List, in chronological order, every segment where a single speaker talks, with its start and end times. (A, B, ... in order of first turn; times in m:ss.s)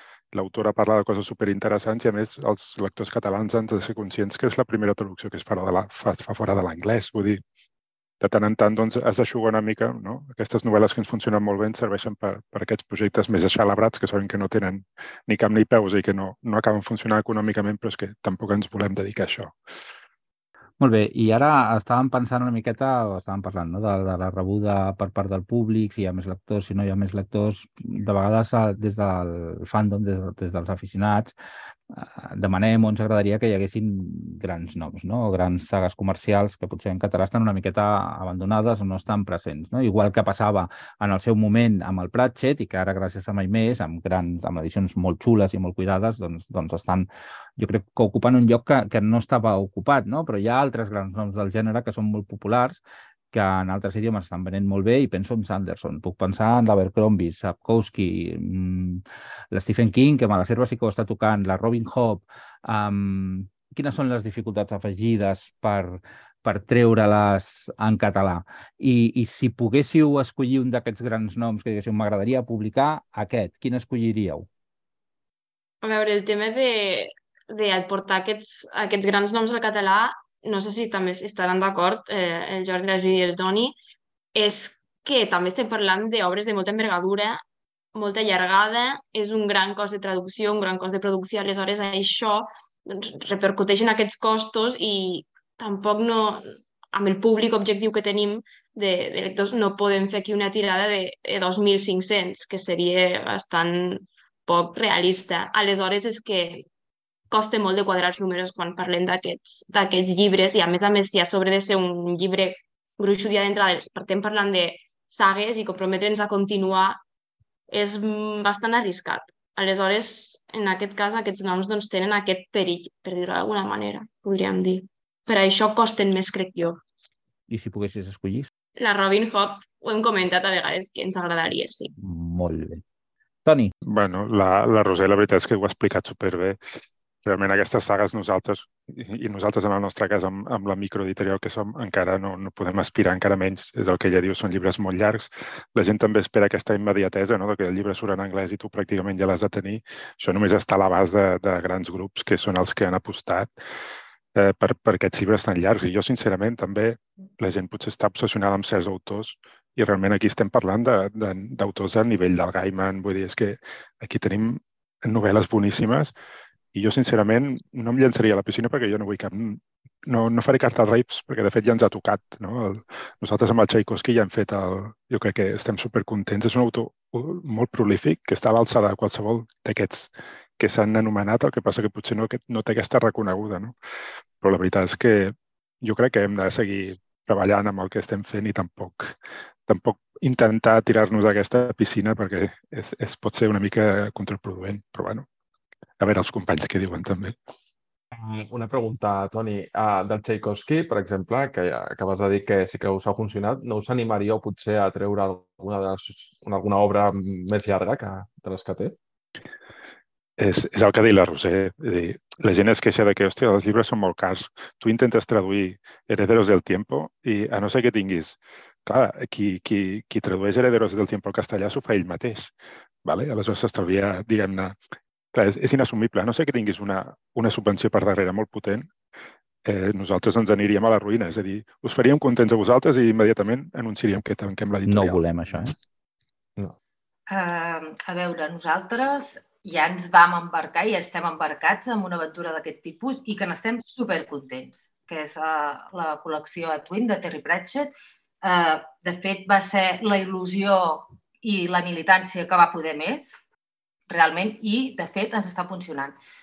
0:00.3-0:07.4 A
0:08.2-0:19.6 A
0:20.8-0:31.3 B
0:31.9-0:47.1 B
0:47.6-0:52.8 B
0:53.3-1:14.5 B
1:15.8-1:23.8 C
1:24.3-1:27.4 C
1:27.9-1:46.6 C
1:47.3-1:57.0 C
1:57.7-2:06.8 C
2:07.5-2:08.5 B
2:08.8-2:11.9 C
2:12.0-2:12.8 B
2:13.4-2:13.7 B
2:13.9-2:16.6 A
2:17.2-2:33.5 A
2:34.3-2:46.1 A
2:46.7-3:03.7 A
3:04.4-3:09.2 A
3:09.7-3:15.2 A
3:16.0-3:17.3 A
3:18.1-3:28.9 D
3:30.4-3:42.5 A
3:43.0-3:44.8 A
3:45.3-3:48.9 A
3:49.6-3:55.2 A
3:54.8-3:55.7 B
3:57.3-4:13.4 E
4:14.1-4:16.2 E